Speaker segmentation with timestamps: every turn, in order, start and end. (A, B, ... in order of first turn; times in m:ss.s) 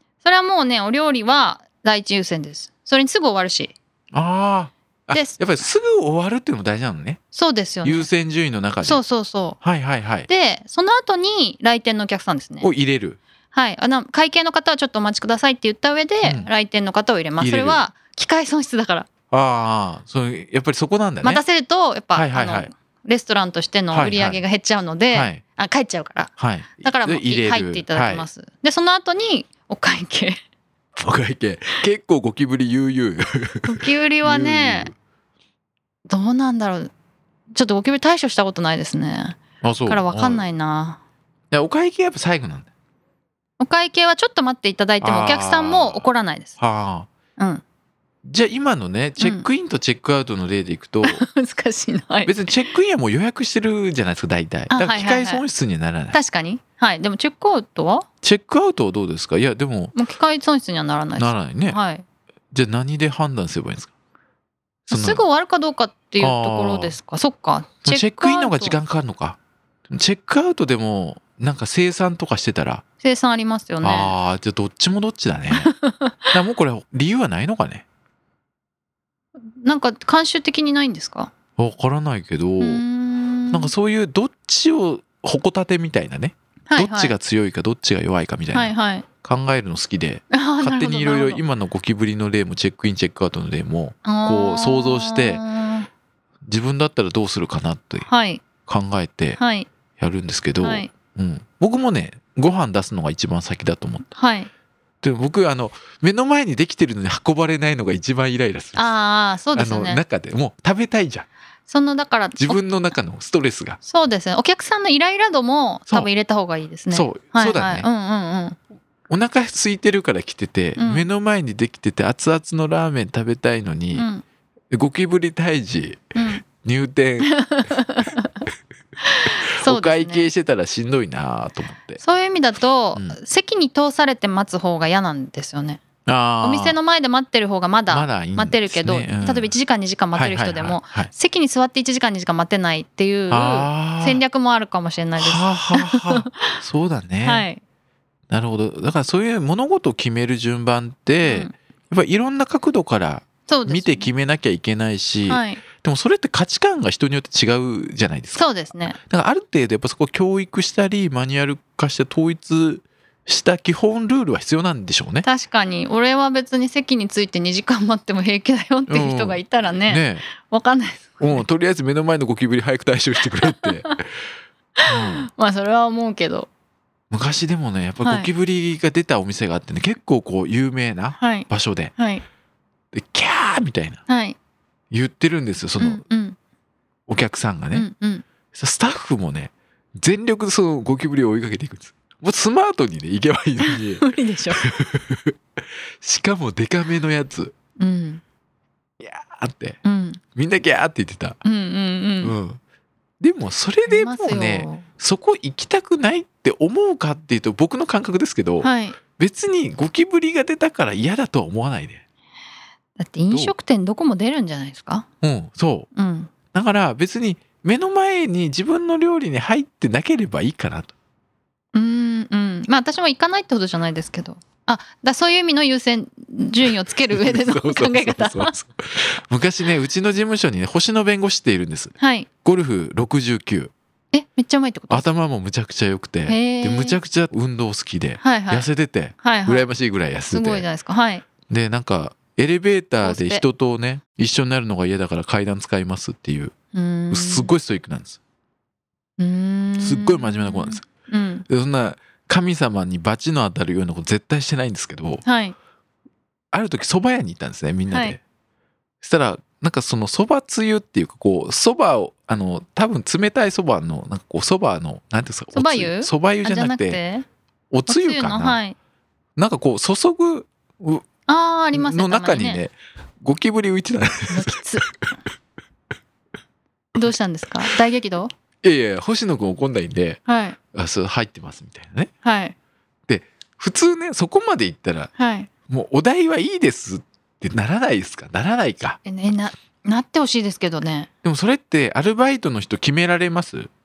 0:00.2-0:03.7 A
0:04.1-0:07.2 B
0:05.1-0:05.4 A
0:07.3-0:08.1 A
0:07.8-0:09.0 B
0:08.8-0:09.6 A
0:09.6-0:10.3 B
0:10.3-0:12.7 A
0:12.6-0:13.2 B
0:13.5-0:19.1 A
0:16.2-0:16.5 B
0:17.4-0:17.8 B
0:19.3-0:21.4 B
0:21.2-0:30.4 A
0:22.2-0:22.7 B
0:23.9-0:24.4 B
0:25.1-0:25.4 B
0:26.4-0:28.3 B
0:31.0-0:34.9 B
0:33.7-0:34.9 A
0:36.1-0:36.9 A
0:37.5-0:41.0 A
0:39.6-0:40.4 B
0:41.5-0:42.7 B
0:43.6-0:46.6 A
0:45.0-0:46.1 B
0:46.6-0:47.1 B
0:48.2-0:51.3 B
0:49.2-0:49.5 A
0:51.0-0:52.4 A
0:52.3-0:56.2 B
0:54.7-0:55.4 A
0:56.1-0:58.1 A
0:58.2-0:59.9 B
0:59.9-1:02.0 A
1:01.2-1:01.8 B
1:02.5-1:03.9 B
1:04.9-1:08.8 A
1:04.9-1:05.2 B
1:06.2-1:07.0 B
1:07.8-1:12.8 B
1:13.0-1:14.2 A
1:13.8-1:15.7 B
1:15.6-1:16.2 A
1:16.3-1:17.8 B
1:19.6-1:21.3 A
1:21.6-1:22.8 B
1:22.6-1:23.7 A
1:23.5-1:35.4 B
1:26.7-1:27.1 A
1:28.5-1:29.1 A
1:30.3-1:31.4 A
1:34.0-1:35.9 A
1:36.4-1:38.1 B
1:38.1-1:38.4 A
1:38.6-1:39.4 B
1:39.4-1:39.7 A
1:40.0-1:44.1 B
1:40.6-1:40.9 A
1:44.2-1:44.5 A
1:45.0-1:48.9 B
1:48.8-1:50.0 A
1:49.5-1:51.3 B
1:51.7-1:52.6 A
1:52.4-1:53.8 B
1:53.8-1:58.6 A
1:56.9-1:57.9 B
1:59.1-2:04.1 B
2:00.8-2:01.1 A
2:03.9-2:04.2 A
2:04.7-2:07.7 B
2:06.2-2:06.4 A
2:07.3-2:08.3 A
2:09.0-2:10.3 A
2:09.6-2:12.0 B
2:12.0-2:15.8 A
2:16.1-2:16.8 B
2:16.4-2:26.6 A
2:17.9-2:19.6 B
2:20.2-2:21.1 B
2:23.3-2:24.2 B
2:25.2-2:27.5 B
2:27.2-2:27.6 A
2:28.3-2:38.5 B
2:31.2-2:31.5 A
2:33.5-2:34.1 A
2:35.3-2:35.6 A
2:38.4-2:39.0 A
2:39.1-2:45.3 B
2:45.2-2:51.4 A
2:48.9-2:50.3 B
2:51.2-2:53.9 B
2:54.8-2:56.5 A
2:54.8-2:55.3 B
2:57.1-3:01.9 B
2:58.0-2:58.3 A
3:01.2-3:02.2 A
3:02.9-3:04.0 B
3:04.1-3:04.4 A
3:04.9-3:06.0 B
3:05.8-3:06.4 A
3:07.1-3:07.9 B
3:07.7-3:08.2 A
3:08.5-3:15.4 B
3:13.6-3:14.6 A
3:16.0-3:17.6 B
3:17.8-3:18.2 A
3:19.0-3:19.8 B
3:19.8-3:20.2 A
3:20.4-3:21.4 B
3:21.4-3:22.4 A
3:22.2-3:22.6 B
3:23.2-3:32.0 B
3:23.9-3:24.9 A
3:28.6-3:29.0 A
3:33.0-3:35.1 A
3:35.2-3:35.9 B
3:36.0-3:36.3 A
3:36.5-3:40.9 B
3:41.7-3:48.6 A
3:47.1-3:53.7 B
3:52.0-3:52.3 A
3:54.1-3:55.1 A
3:54.9-4:00.7 B
3:56.3-3:57.0 A
3:58.2-3:58.7 A
3:59.2-3:59.7 A
4:00.3-4:01.2 A
4:01.5-4:06.6 B
4:03.0-4:03.4 A
4:06.7-4:07.5 A
4:07.1-4:08.2 B
4:09.2-4:11.5 A
4:09.8-4:10.9 B
4:11.5-4:15.2 B
4:15.2-4:15.6 A
4:16.5-4:18.2 B
4:17.9-4:18.2 A
4:19.0-4:27.0 B
4:25.5-4:27.2 A
4:27.7-4:28.6 B
4:27.9-4:28.8 A
4:29.4-4:31.1 B
4:31.3-4:32.6 A
4:31.7-4:34.6 B
4:34.3-4:34.9 A
4:37.0-4:38.3 A
4:38.6-4:40.2 B
4:40.3-4:40.6 A
4:40.7-4:42.1 B
4:42.2-4:42.6 A
4:43.1-4:45.1 B
4:45.2-4:45.5 A
4:45.7-4:49.0 B
4:49.0-4:51.1 A
4:51.2-4:53.7 B